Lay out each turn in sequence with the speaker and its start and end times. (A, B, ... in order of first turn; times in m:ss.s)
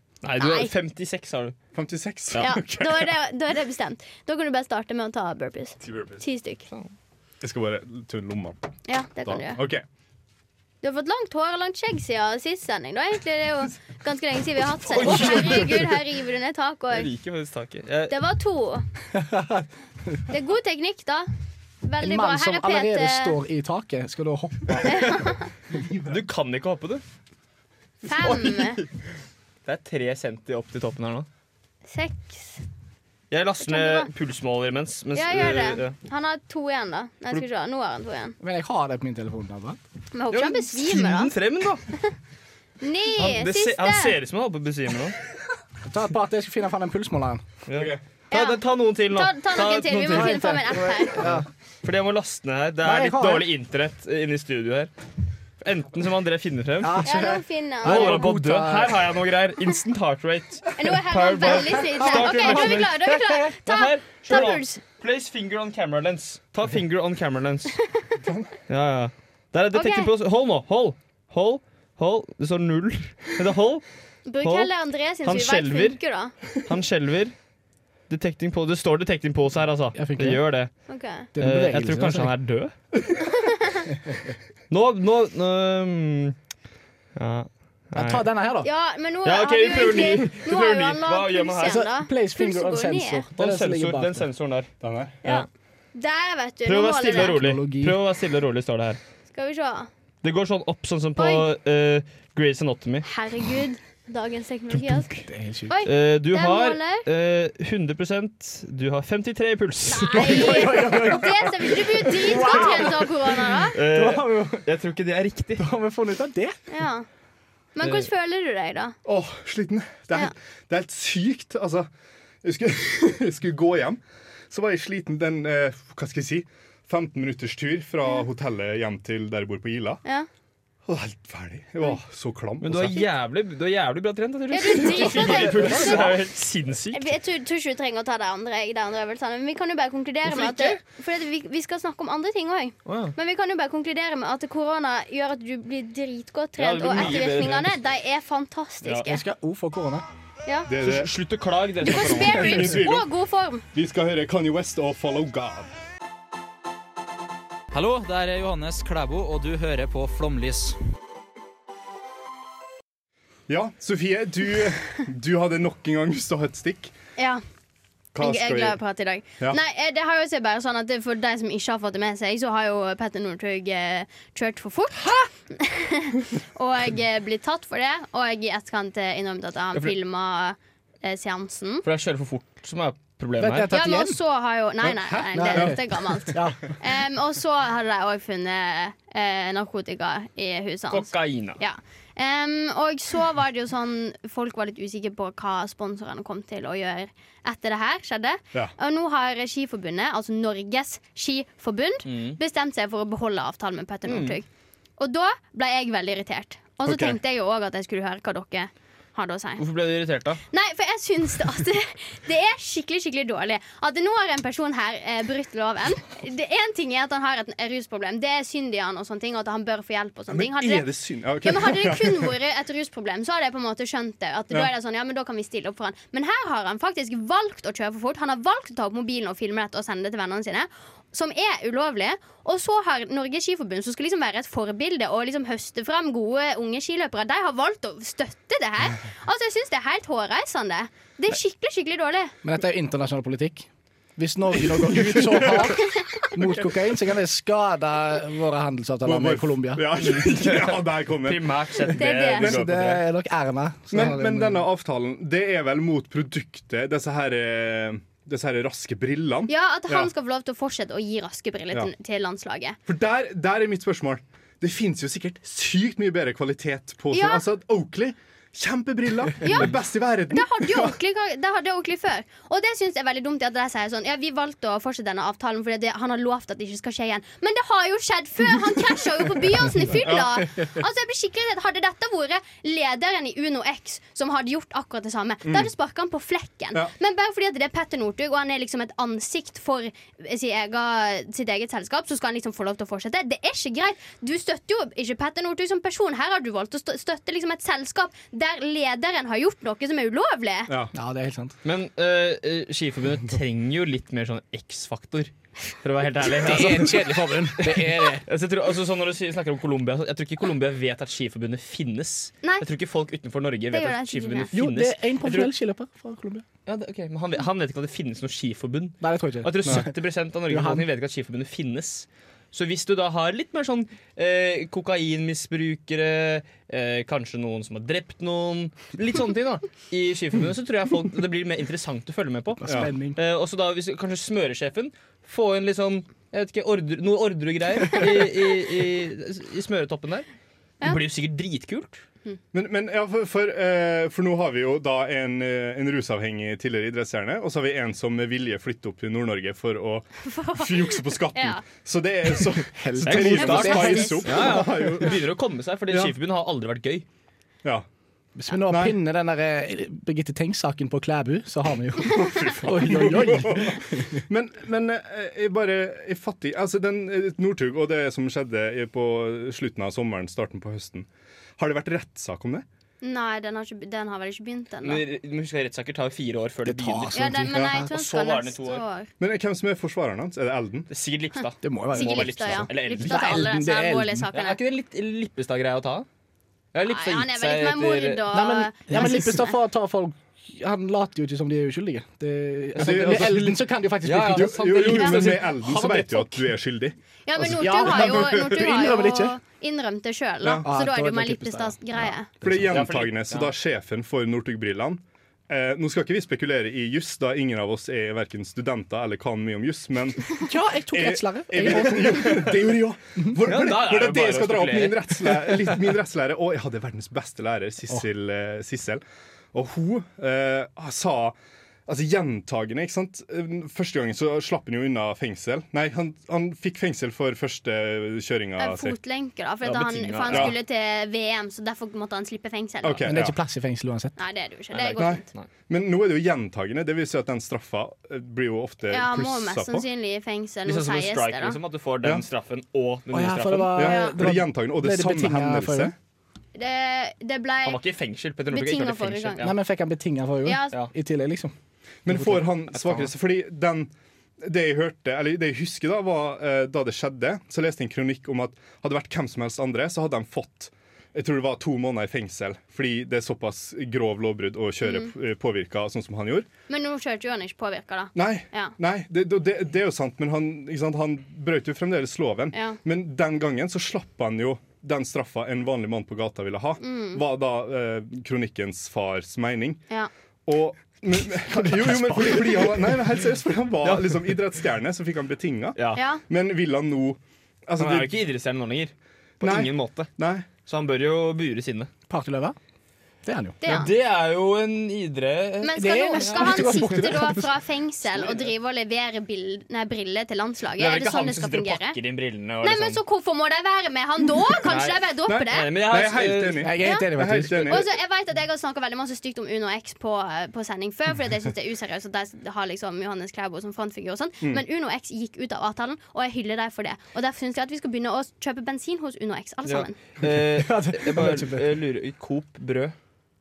0:00.2-0:01.6 A
0:00.4-0:00.7 B
0:01.7-0:03.1 C
0:02.4-0:06.6 B
0:05.8-0:06.2 C
0:07.4-0:08.6 C
0:08.9-0:09.6 B
0:09.2-0:09.8 C
0:10.8-0:17.1 B
0:14.9-0:15.9 A
0:16.9-0:18.1 A
0:18.1-0:18.8 B
0:19.1-0:19.6 D
0:20.3-0:21.3 B
0:21.8-0:23.4 B
0:22.0-0:25.3 D
0:24.8-0:25.5 B
0:25.8-0:26.2 C
0:26.0-0:27.0 A
0:28.0-0:28.8 B
0:28.2-0:28.9 A
0:29.6-0:31.3 A
0:31.9-0:32.6 B
0:33.3-0:35.9 A
0:33.6-0:34.1 B
0:35.1-0:38.4 B
0:38.4-0:39.8 D
0:40.1-0:41.3 B
0:40.3-0:41.8 A
0:42.8-0:44.1 B
0:43.2-0:45.2 A
0:45.8-0:47.4 D
0:47.7-0:54.9 A
0:47.7-0:48.0 C
0:48.3-0:51.2 B
0:50.1-0:51.4 D
0:52.8-0:53.5 D
0:55.6-0:57.1 A
0:56.8-0:59.1 D
0:57.0-0:58.3 B
0:57.8-1:02.9 A
1:00.8-1:04.8 B
1:01.4-1:03.6 D
1:03.6-1:07.8 A
1:08.2-1:08.5 C
1:08.7-1:13.8 A
1:09.7-1:10.1 B
1:14.2-1:16.3 B
1:14.4-1:16.0 A
1:16.5-1:17.3 A
1:18.1-1:20.7 A
1:19.9-1:20.4 D
1:20.9-1:21.3 B
1:21.3-1:22.3 D
1:21.4-1:22.7 A
1:23.2-1:23.8 B
1:24.7-1:26.3 A
1:27.2-1:28.2 A
1:27.9-1:28.7 D
1:28.6-1:33.2 B
1:29.2-1:31.8 A
1:31.6-1:34.2 D
1:33.4-1:34.7 A
1:34.8-1:35.2 C
1:35.2-1:37.4 B
1:36.6-1:39.0 A
1:37.1-1:38.0 D
1:39.3-1:39.9 B
1:40.2-1:43.0 A
1:41.2-1:41.4 B
1:43.0-1:45.1 B
1:44.7-1:45.2 A
1:45.3-1:45.7 D
1:45.7-1:47.0 B
1:45.8-1:51.0 A
1:49.9-1:53.8 B
1:50.1-1:54.6 D
1:52.4-1:52.8 A
1:53.7-1:55.6 A
1:55.6-1:56.6 D
1:56.7-1:57.0 B
1:57.7-1:59.0 B
1:57.8-1:58.1 A
1:59.0-2:01.9 C
2:02.4-2:10.0 C
2:10.8-2:13.0 C
2:12.6-2:17.1 A
2:14.5-2:16.2 B
2:15.2-2:16.0 D
2:16.9-2:29.2 B
2:20.2-2:20.8 A
2:22.8-2:23.1 A
2:26.6-2:27.7 A
2:29.0-2:30.0 D
2:30.7-2:31.1 C
2:30.8-2:32.8 A
2:31.8-2:33.6 B
2:32.3-2:33.1 C
2:33.7-2:35.7 C
2:37.7-2:40.8 E
2:43.5-2:46.9 C
2:47.2-2:47.4 B
2:48.1-2:48.8 C
2:48.2-3:01.8 B
3:01.8-3:03.7 A
3:03.4-3:04.2 D
3:03.7-3:24.4 B
3:04.8-3:05.8 C
3:05.3-3:05.8 D
3:06.3-3:06.7 D
3:10.9-3:11.6 A
3:22.0-3:22.4 A
3:24.0-3:24.4 A
3:25.0-3:29.6 B
3:26.8-3:27.2 C
3:29.6-3:30.4 A
3:30.5-3:40.9 B
3:40.3-3:42.3 C
3:41.4-4:02.3 B
4:02.4-4:09.8 D
4:05.0-4:05.8 C
4:09.0-4:11.6 C
4:10.0-4:13.0 A
4:12.0-4:12.5 B
4:12.4-4:14.6 D
4:13.9-4:20.1 C
4:19.5-4:22.8 B
4:22.9-4:31.0 C
4:27.1-4:27.4 B
4:29.4-4:29.8 B
4:30.3-5:00.7 B
4:39.8-4:40.8 C
4:45.4-4:45.7 C
5:00.9-5:01.5 D
5:01.6-5:15.5 A
5:06.3-5:08.2 D
5:13.7-5:14.5 B
5:14.5-5:16.4 D
5:16.6-5:40.2 A
5:19.0-5:19.9 D
5:20.5-5:20.8 D
5:32.6-5:33.2 D
5:40.8-5:42.0 A
5:42.5-5:55.2 C
5:50.2-5:51.6 B
5:52.7-5:54.6 D
5:53.0-5:57.0 A
5:53.4-5:54.2 B
5:55.9-5:56.1 C
5:58.4-6:04.2 D
5:58.7-5:59.0 C
6:02.1-6:12.6 C
6:13.0-6:15.0 B
6:14.8-6:17.3 A
6:16.6-6:17.9 D
6:17.1-6:19.1 B
6:17.5-6:17.8 C
6:17.8-6:18.8 A
6:19.2-6:20.9 C
6:20.9-6:23.5 A
6:21.6-6:24.3 D
6:21.9-6:24.6 B
6:24.3-6:26.1 A
6:26.7-6:28.3 A
6:26.9-6:29.6 B
6:28.3-6:35.4 D
6:32.8-6:33.6 C
6:32.8-6:36.4 A
6:34.2-6:38.6 C
6:37.2-6:42.3 B
6:37.6-6:39.4 D
6:40.4-6:40.7 C
6:40.6-6:42.7 D
6:42.4-6:59.0 C
6:42.7-6:43.5 A
6:50.4-6:52.7 D
6:53.4-6:55.6 A
6:59.5-7:01.4 C
7:01.9-7:09.0 C
7:08.6-7:13.1 B
7:09.6-7:10.5 A
7:10.3-7:10.5 C
7:12.8-7:13.4 C
7:13.0-7:14.1 D
7:14.2-7:15.2 B
7:14.7-7:15.5 A
7:15.0-7:19.8 C
7:18.9-7:21.6 B
7:20.6-7:23.8 A
7:23.1-7:25.9 D
7:23.7-7:25.9 C
7:23.8-7:24.2 B
7:26.5-7:27.8 B
7:27.6-7:29.5 A
7:28.5-7:29.5 B
7:29.4-7:31.5 D
7:30.4-7:30.7 B
7:32.0-7:46.5 C
7:32.1-7:33.1 A
7:44.8-7:45.1 B
7:46.7-7:48.7 B
7:48.1-7:59.8 C
7:52.5-7:52.8 B
7:56.8-7:57.2 B
8:00.4-8:08.2 C
8:01.8-8:02.5 A
8:03.8-8:04.4 A
8:05.8-8:06.0 A
8:05.9-8:06.2 B
8:07.8-8:10.1 A
8:09.4-8:10.5 C
8:10.6-8:11.9 A
8:12.1-8:12.6 D
8:13.2-8:13.6 D
8:13.6-8:13.9 B
8:13.6-8:16.9 A
8:15.6-8:22.0 B
8:15.7-8:17.5 D
8:20.8-8:23.0 A
8:22.6-8:25.7 B
8:24.6-8:26.7 A
8:25.3-8:27.9 C
8:26.6-8:27.8 D
8:26.8-8:40.0 B
8:39.6-8:42.9 A
8:40.2-8:41.8 D